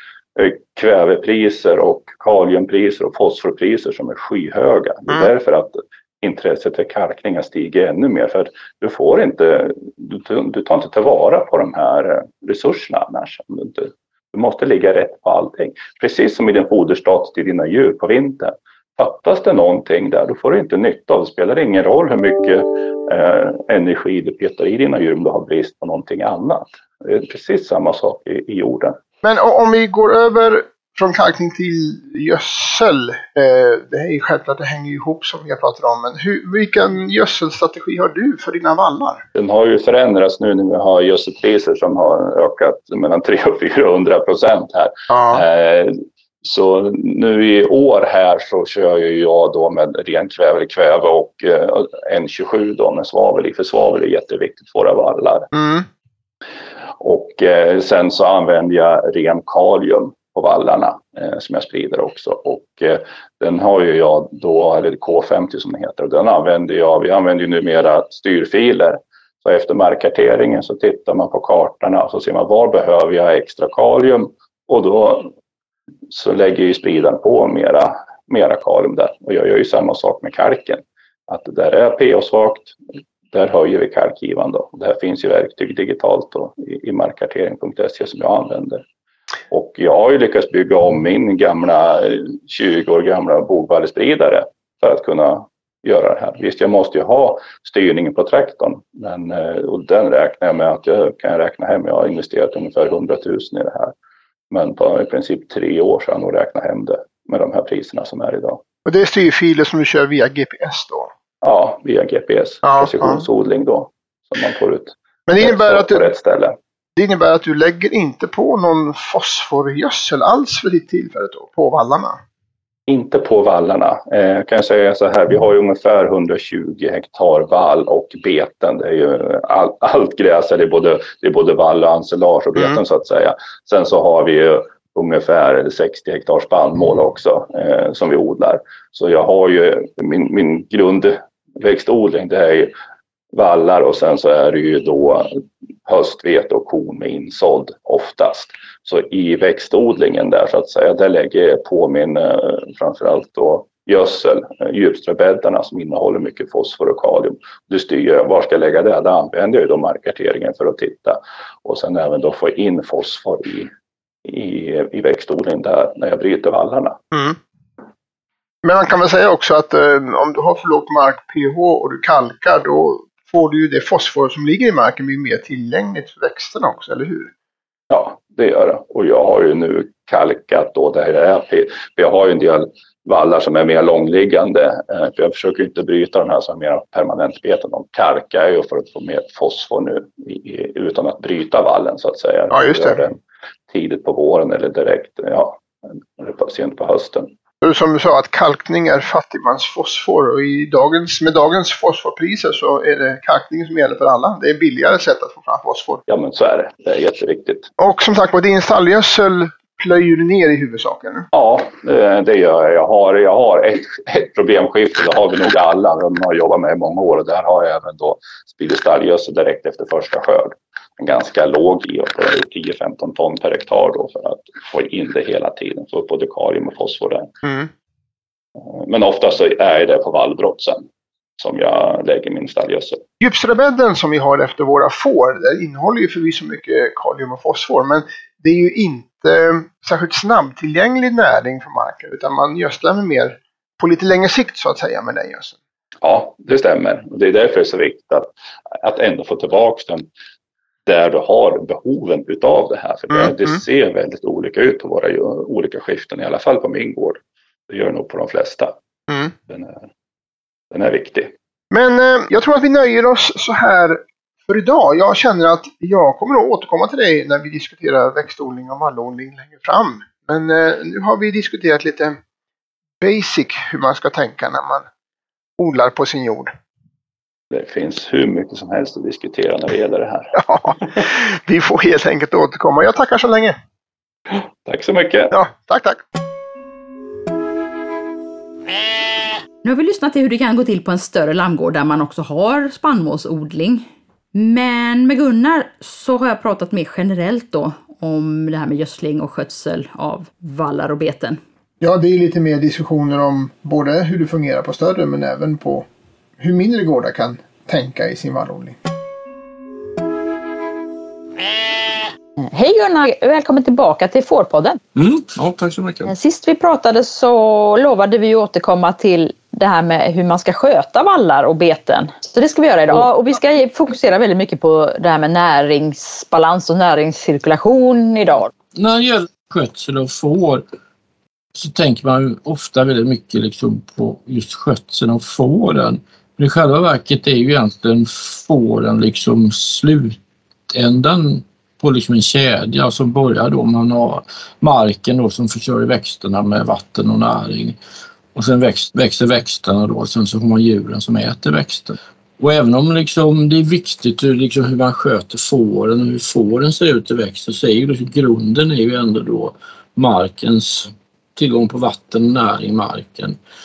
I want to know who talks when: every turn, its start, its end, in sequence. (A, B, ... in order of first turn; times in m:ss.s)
0:00.4-0:29.0 A
0:29.2-0:39.2 B
0:39.3-0:55.5 A
0:45.1-0:45.4 B
0:55.5-0:55.8 B
0:57.0-1:15.3 A
1:16.1-1:22.7 A
1:23.3-1:28.8 A
1:29.5-1:43.9 A
1:44.5-1:48.6 A
1:48.8-1:51.1 B
1:51.4-1:56.6 A
1:52.6-1:53.2 B
1:55.3-1:56.0 B
1:57.0-2:02.2 B
2:02.9-2:22.7 A
2:23.3-2:43.7 A
2:44.2-2:47.0 A
2:47.1-2:47.4 B
2:48.6-2:57.3 B
2:57.9-3:13.2 A
3:12.5-3:13.0 B
3:13.7-3:15.6 A
3:16.2-3:17.3 A
3:17.6-3:26.0 B
3:26.1-3:27.7 A
3:27.8-3:31.3 B
3:31.3-3:47.3 A
3:47.4-3:47.7 B
3:48.7-3:50.8 A
3:51.4-3:53.0 A
3:53.2-4:05.6 B
4:06.0-4:08.3 A
4:08.8-4:10.1 A
4:10.8-4:18.8 A
4:13.1-4:13.6 B
4:19.5-4:19.8 A
4:20.7-4:21.3 A
4:21.7-4:32.2 B
4:33.0-4:34.8 B
4:35.6-4:36.5 B
4:37.5-4:40.3 A
4:40.4-4:43.6 B
4:44.3-4:45.3 A
4:45.3-4:46.0 B
4:49.6-5:01.4 C
5:01.8-5:05.8 D
5:06.4-5:08.8 D
5:12.5-5:14.8 C
5:15.0-5:16.1 E
5:16.1-5:28.5 C
5:28.7-5:30.6 E
5:31.5-5:40.2 E
5:40.7-5:47.8 E
5:48.3-6:03.4 E